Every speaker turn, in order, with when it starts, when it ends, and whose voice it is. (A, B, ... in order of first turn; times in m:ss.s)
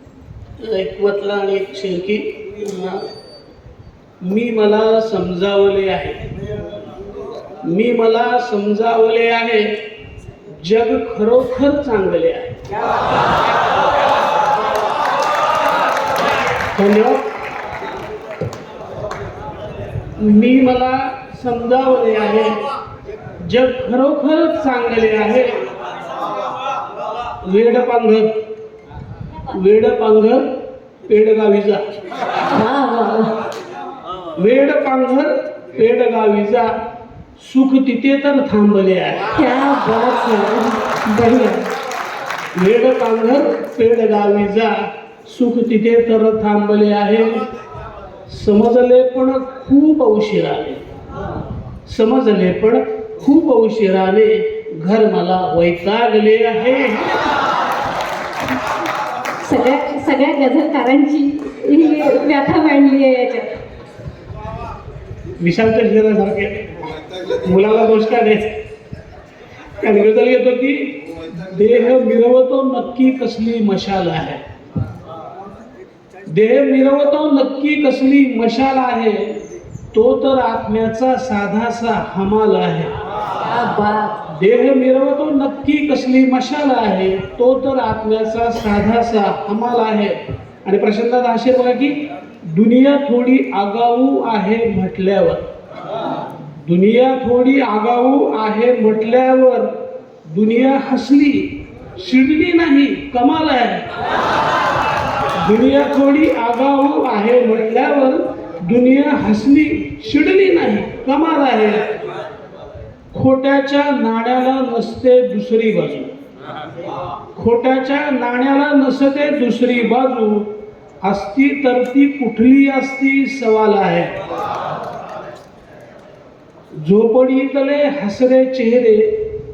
0:00.6-0:03.1 A
0:04.2-0:06.2 A
0:07.6-0:09.7 A
0:10.6-0:12.6 A
0:16.8-0:17.2 A
0:20.2-0:22.6 A
0:23.4-0:25.6 A
0:27.4-0:28.3 A
0:29.5-0:30.4 A
0:31.1-0:31.9 A
0:32.5-0:33.3 B
0:34.4-0:36.7 A
0:37.4-0:39.3 A
0:39.3-0:41.7 B
0:42.6-0:47.5 A
0:48.3-0:50.8 A
0:51.9-0:57.3 A
0:59.4-1:03.5 B
1:05.4-1:06.7 A
1:07.3-1:08.5 A
1:09.8-1:14.4 A
1:16.3-1:19.4 A
1:19.9-1:22.9 A
1:23.4-1:24.2 B
1:24.3-1:32.0 A
1:32.5-1:35.4 A
1:36.6-1:39.7 A
1:40.3-1:43.8 A
1:45.4-1:51.9 A
1:53.1-1:56.1 A
1:57.3-2:00.5 A
2:01.0-2:04.1 A
2:06.8-2:09.1 A